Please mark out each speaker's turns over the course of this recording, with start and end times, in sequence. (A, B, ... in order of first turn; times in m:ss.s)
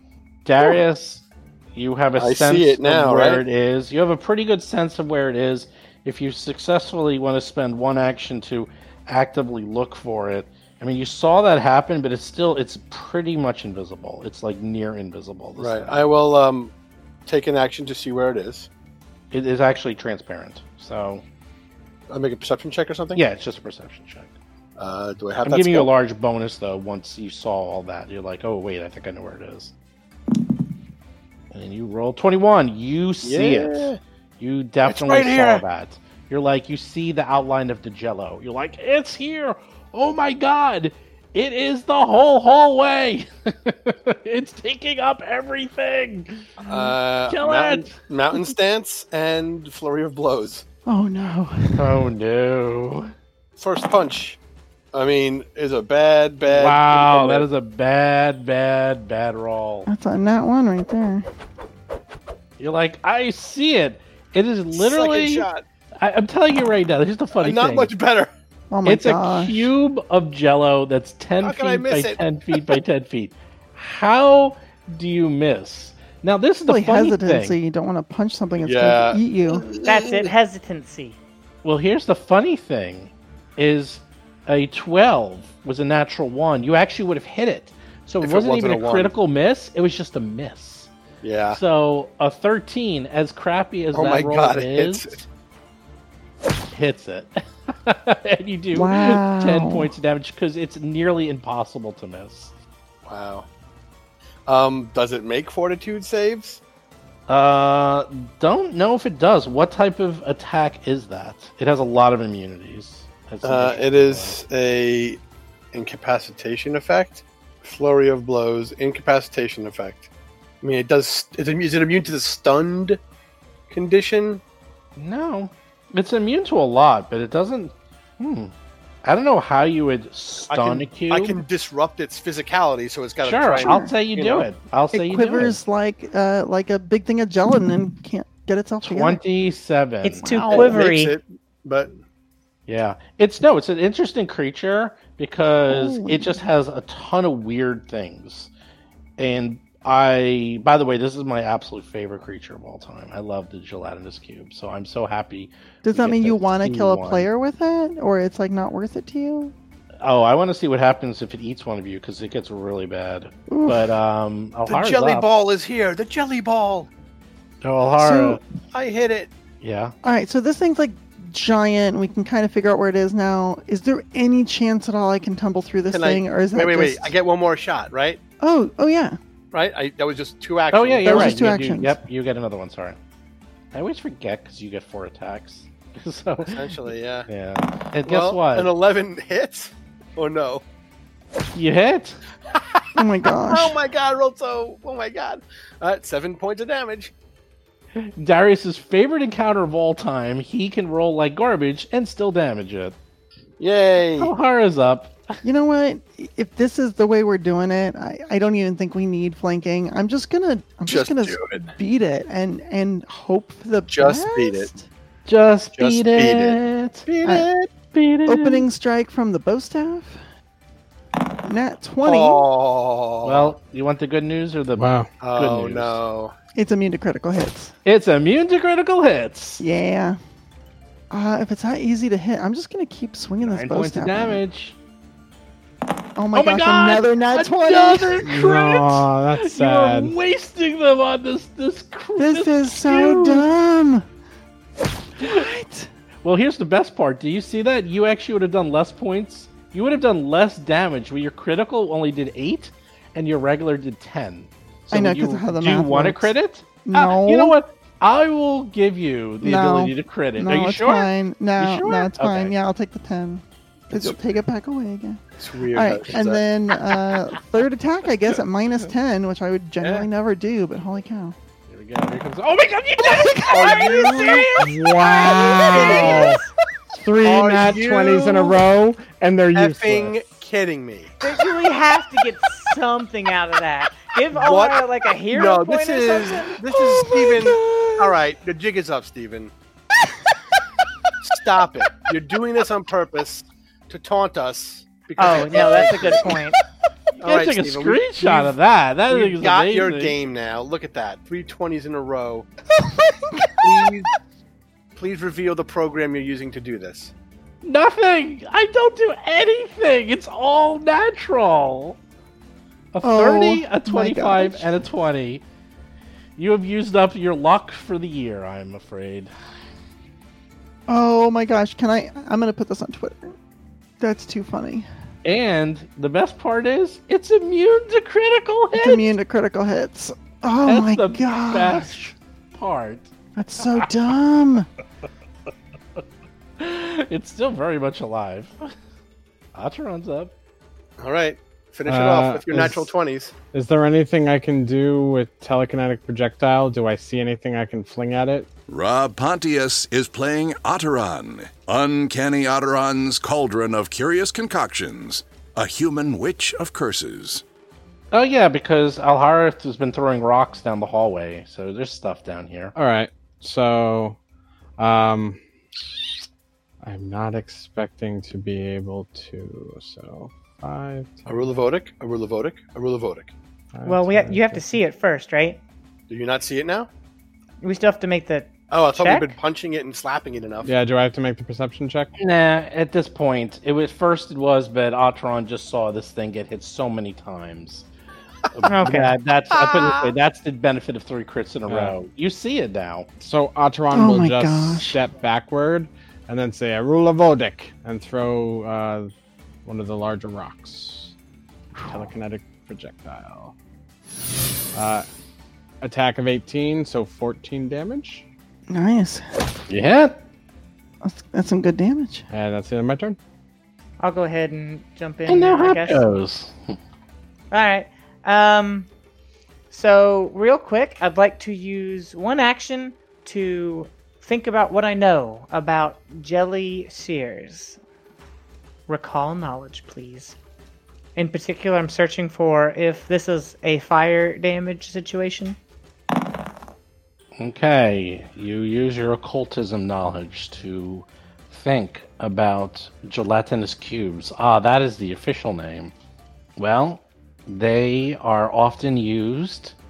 0:00.4-0:16.0 A
0:02.2-0:03.4 B
0:15.6-0:16.7 B
0:17.2-0:18.7 B
0:19.3-0:21.2 A
0:22.1-0:23.2 B
0:23.1-0:24.3 A
0:24.8-0:25.9 B
0:25.4-0:29.7 A
0:31.5-0:46.5 A
0:33.2-0:34.0 B
0:34.8-0:35.6 B
0:46.6-0:50.6 B
0:47.3-0:48.0 A
0:50.8-0:52.0 C
0:51.7-0:53.1 A
0:53.6-0:54.4 B
0:54.9-0:57.4 B
0:56.5-0:59.9 A
0:59.9-1:01.2 C
1:02.6-1:07.9 A
1:04.7-1:05.6 B
1:07.4-1:08.3 B
1:08.7-1:09.7 C
1:08.8-1:17.6 A
1:11.4-1:12.6 B
1:16.7-1:19.7 C
1:18.6-1:20.3 B
1:19.8-1:21.2 D
1:21.6-1:30.9 A
1:28.2-1:29.1 B
1:31.2-1:31.6 B
1:31.5-1:35.3 A
1:33.9-1:35.1 B
1:36.7-1:42.5 A
1:38.7-1:39.9 C
1:43.0-1:43.5 B
1:44.5-1:46.6 B
1:47.3-1:54.4 A
1:53.4-1:55.2 B
1:55.7-2:00.1 B
2:00.6-2:03.0 B
2:03.7-2:04.4 B
2:05.0-2:11.4 A
2:10.5-2:14.5 B
2:13.2-2:15.6 A
2:13.6-2:13.9 C
2:14.9-2:19.2 C
2:18.8-2:20.8 A
2:20.0-2:21.1 D
2:20.4-2:21.9 B
2:22.7-2:28.5 A
2:25.7-2:26.4 C
2:29.2-2:37.3 A
2:35.8-2:39.5 C
2:40.0-2:45.2 A
2:43.5-2:43.9 C
2:44.7-2:46.9 B
2:47.6-2:48.4 A
2:48.0-2:48.4 C
2:48.7-2:49.3 B
2:49.6-2:50.0 A
2:50.0-2:57.2 C
2:55.9-2:58.2 B
2:58.4-2:59.2 C
2:59.5-3:01.5 B
3:00.7-3:03.0 A
3:01.0-3:02.0 C
3:03.7-3:08.7 A
3:06.4-3:07.3 B
3:08.0-3:10.6 B
3:11.5-3:12.8 A
3:13.0-3:13.8 C
3:13.4-3:17.1 B
3:17.9-3:23.0 A
3:23.6-3:24.3 B
3:24.2-3:25.4 A
3:25.4-3:34.9 C
3:30.9-3:31.7 B
3:33.9-3:34.7 B
3:35.3-3:38.7 A
3:35.7-3:36.6 B
3:37.1-3:37.4 B
3:37.2-3:37.5 C
3:38.3-3:40.2 C
3:41.4-3:42.4 C
3:42.0-3:43.5 B
3:43.2-3:46.0 A
3:44.8-3:45.1 E
3:45.2-3:46.3 B
3:46.5-3:47.7 C
3:47.8-3:49.6 A
3:49.6-3:50.2 C
3:51.1-3:54.4 C
3:53.4-3:54.8 A
3:56.2-3:58.3 C
3:56.3-4:03.5 A
3:58.2-4:00.1 E
4:02.2-4:04.0 C
4:05.2-4:05.9 C
4:05.2-4:05.5 A
4:06.2-4:22.5 A
4:14.9-4:16.3 C
4:16.8-4:17.5 C
4:19.4-4:31.3 C
4:23.9-4:24.2 B
4:25.4-4:26.4 B
4:29.8-4:30.0 B
4:31.7-4:34.7 A
4:33.0-4:34.6 C
4:33.1-4:34.6 B
4:34.1-4:36.4 E
4:35.2-4:36.2 C
4:35.3-4:36.4 B
4:35.8-4:36.5 D
4:37.0-4:40.2 E
4:37.2-4:38.4 B
4:39.5-4:41.1 B
4:41.2-4:46.5 D
4:44.3-4:49.5 B
4:46.5-4:48.2 C
4:51.2-4:56.3 B
4:55.2-4:56.6 D
4:55.3-4:56.2 A
4:57.2-4:58.5 B
4:57.2-5:00.2 A
4:59.1-5:02.5 B
5:02.8-5:03.9 C
5:03.5-5:04.1 B
5:05.0-5:07.1 B
5:07.6-5:12.0 A
5:12.9-5:15.4 A
5:13.0-5:14.8 C
5:16.4-5:19.3 A
5:20.9-5:23.4 C
5:24.0-5:24.8 C
5:25.2-5:29.1 A
5:28.7-5:31.9 C
5:30.6-5:33.1 A
5:33.4-5:34.7 C
5:36.6-5:38.7 A
5:39.5-5:40.3 A
5:41.0-5:43.3 B
5:41.8-5:42.9 E
5:43.5-5:48.5 E
5:48.7-5:57.4 F
5:58.1-6:02.7 A
6:02.7-6:04.2 E
6:04.8-6:05.9 E
6:06.8-6:11.3 E
6:11.3-6:13.3 B
6:13.7-6:14.8 E
6:13.8-6:15.6 D
6:16.1-6:16.9 B
6:17.6-6:19.4 D
6:18.7-6:20.7 B
6:20.6-6:22.1 E
6:22.2-6:27.9 A
6:28.5-6:33.1 A
6:28.6-6:29.1 D
6:31.7-6:32.0 E
6:33.2-6:39.1 E
6:33.9-6:35.0 C
6:39.6-6:41.1 E
6:41.8-6:43.5 E
6:44.7-6:45.1 E
6:45.8-6:48.2 E
6:48.7-6:49.4 C
6:49.7-6:50.2 A
6:51.0-6:52.2 C
6:52.3-6:53.2 E
6:54.0-6:56.0 D
6:55.3-6:56.8 A
6:57.5-6:58.9 D
6:59.7-7:07.8 D
7:08.9-7:10.4 D
7:11.2-7:15.6 D
7:17.4-7:25.9 A
7:26.6-7:29.8 A